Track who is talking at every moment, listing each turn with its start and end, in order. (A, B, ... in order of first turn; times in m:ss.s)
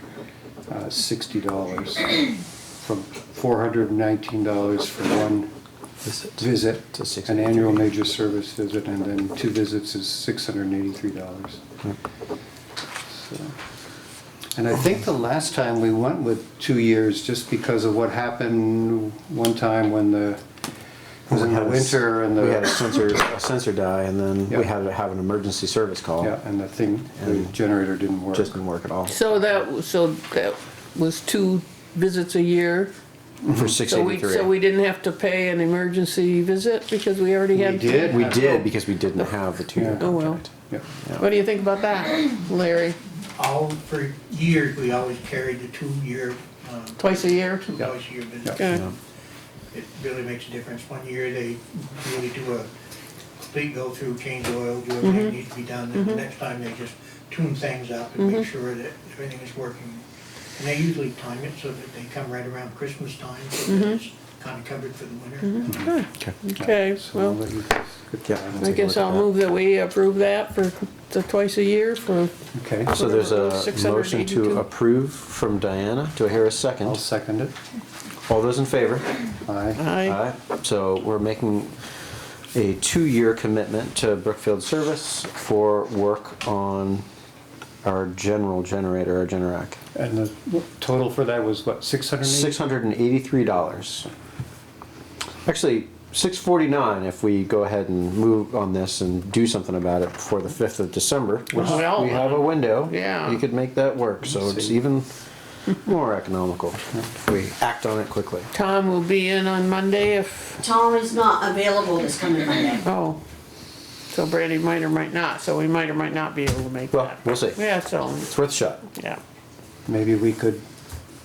0:00.7-0:05.5 A
0:06.0-0:07.9 B
0:06.4-0:11.6 A
0:13.1-0:13.5 A
0:14.6-0:20.4 A
0:21.3-0:22.7 A
0:21.3-0:26.3 B
0:26.2-0:28.5 A
0:27.2-0:27.5 B
0:28.3-0:29.2 B
0:29.1-0:32.9 C
0:33.4-0:33.7 A
0:33.5-0:34.5 B
0:33.8-0:39.3 C
0:37.5-0:38.3 A
0:38.1-0:40.5 B
0:39.8-0:40.1 A
0:40.0-0:40.4 C
0:41.2-0:43.0 C
0:43.4-0:48.9 D
0:47.0-0:47.8 C
0:48.6-0:48.8 C
0:48.7-0:48.9 B
0:49.7-0:52.7 D
0:53.4-1:00.0 D
0:55.0-0:55.3 C
0:55.9-0:56.2 C
0:58.2-0:58.4 C
1:00.6-1:05.8 D
1:03.7-1:04.0 C
1:05.4-1:07.4 C
1:05.7-1:05.9 A
1:06.6-1:08.9 A
1:08.2-1:09.3 B
1:08.6-1:12.3 C
1:12.6-1:12.9 A
1:12.9-1:17.0 B
1:12.9-1:14.6 C
1:16.8-1:17.5 A
1:18.3-1:19.1 B
1:19.5-1:19.8 A
1:19.8-1:20.2 C
1:20.0-1:21.8 B
1:22.5-1:27.0 B
1:27.8-1:29.8 B
1:29.9-1:32.6 A
1:32.2-1:34.1 B
1:35.4-1:45.1 B
1:41.5-1:43.4 C
1:44.2-1:44.7 A
1:45.7-1:48.5 B
1:48.5-1:50.6 C
1:50.6-1:52.9 E
1:52.8-1:53.2 C
1:54.1-1:58.3 C
1:56.9-1:57.6 B
1:58.2-1:58.8 B
1:58.9-1:59.2 C
1:59.9-2:00.6 A